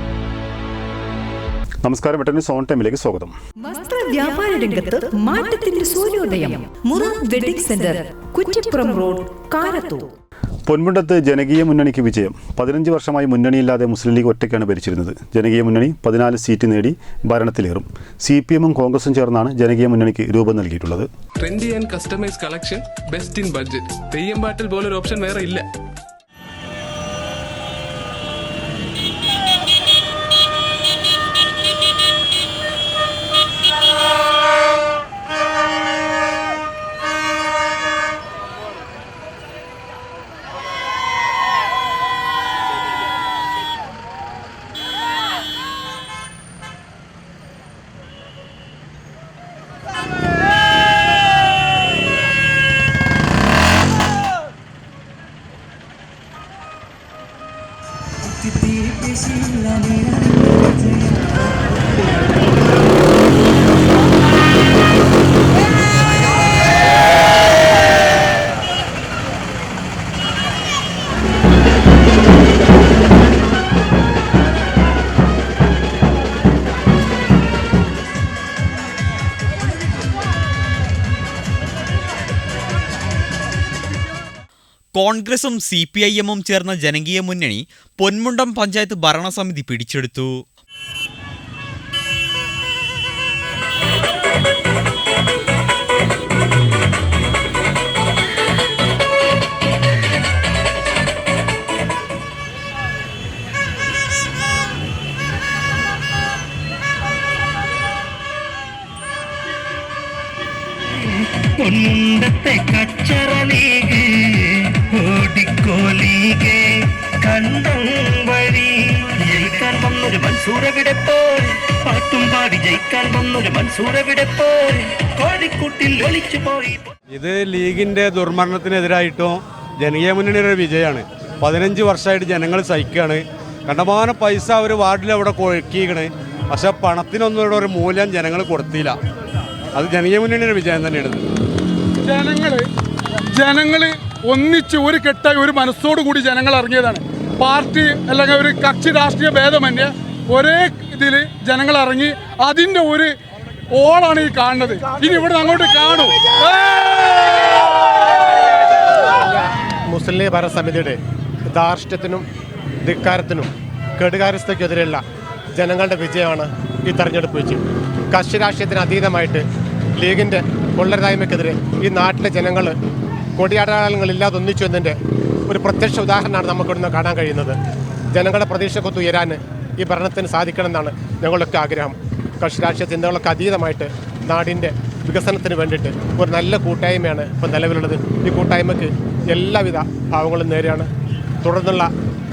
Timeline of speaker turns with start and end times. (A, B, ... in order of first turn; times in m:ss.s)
0:01.8-0:03.3 A
0:03.6-0:10.1 B
0:10.7-0:21.1 A
0:21.4-0:25.6 C
1:24.9-1:30.3 D
1:51.6-1:56.7 E
1:57.2-2:06.8 E
2:07.1-2:19.0 F
2:19.8-2:21.2 F
2:22.0-2:22.7 G
2:23.3-2:33.1 G
2:33.7-2:37.4 G
2:39.1-2:42.2 H
2:42.8-2:45.0 H
2:45.6-2:49.4 H
2:50.0-2:52.8 H
2:53.4-2:55.0 H
2:55.5-2:57.6 H
2:58.1-3:10.9 H
3:11.4-3:11.9 H